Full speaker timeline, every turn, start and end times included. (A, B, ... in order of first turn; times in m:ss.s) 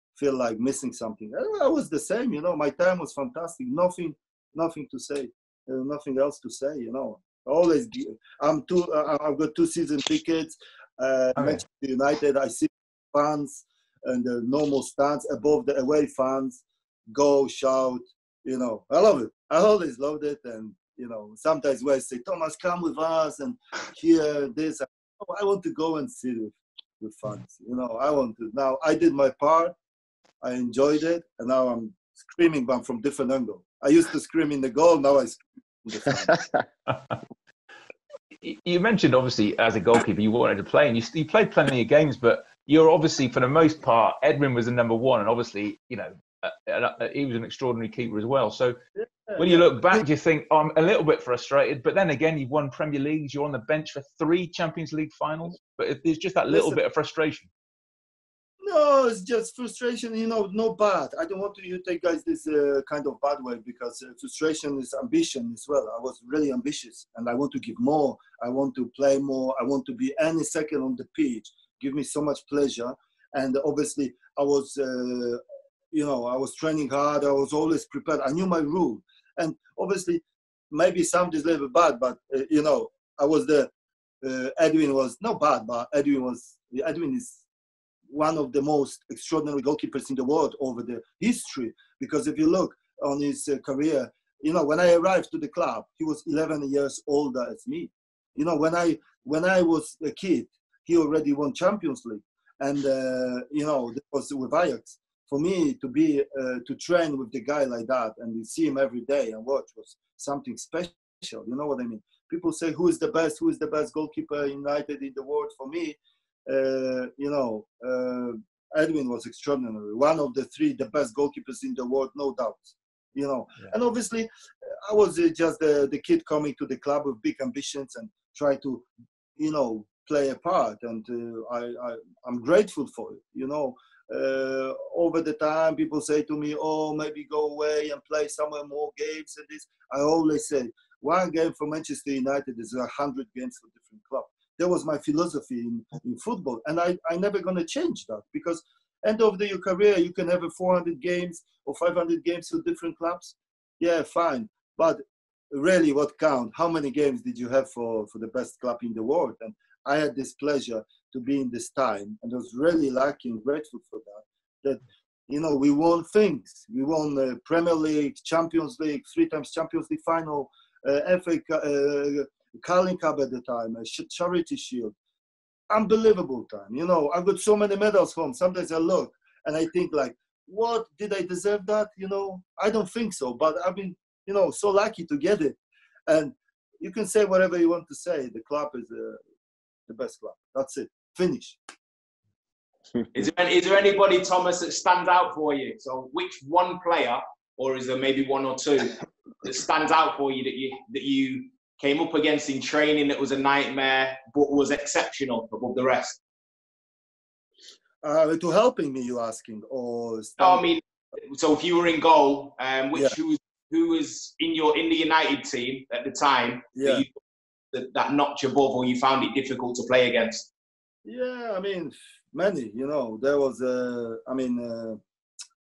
0:00.2-0:29.8 A
0:11.4-0:11.6 B
0:30.4-0:36.4 A
0:38.4-0:48.8 B
0:49.0-0:50.0 A
0:49.4-0:57.5 B
0:56.5-0:56.8 A
0:58.6-1:15.4 A
1:15.9-1:23.7 A
1:24.2-1:27.4 A
1:28.1-2:08.9 A
2:09.4-2:55.0 A
2:55.7-3:09.2 A
3:09.9-3:11.6 A
3:13.2-3:26.2 C
3:28.0-3:30.7 A
3:30.4-3:37.1 C
3:36.8-3:37.0 A
3:37.7-3:40.5 C
3:41.0-3:45.0 A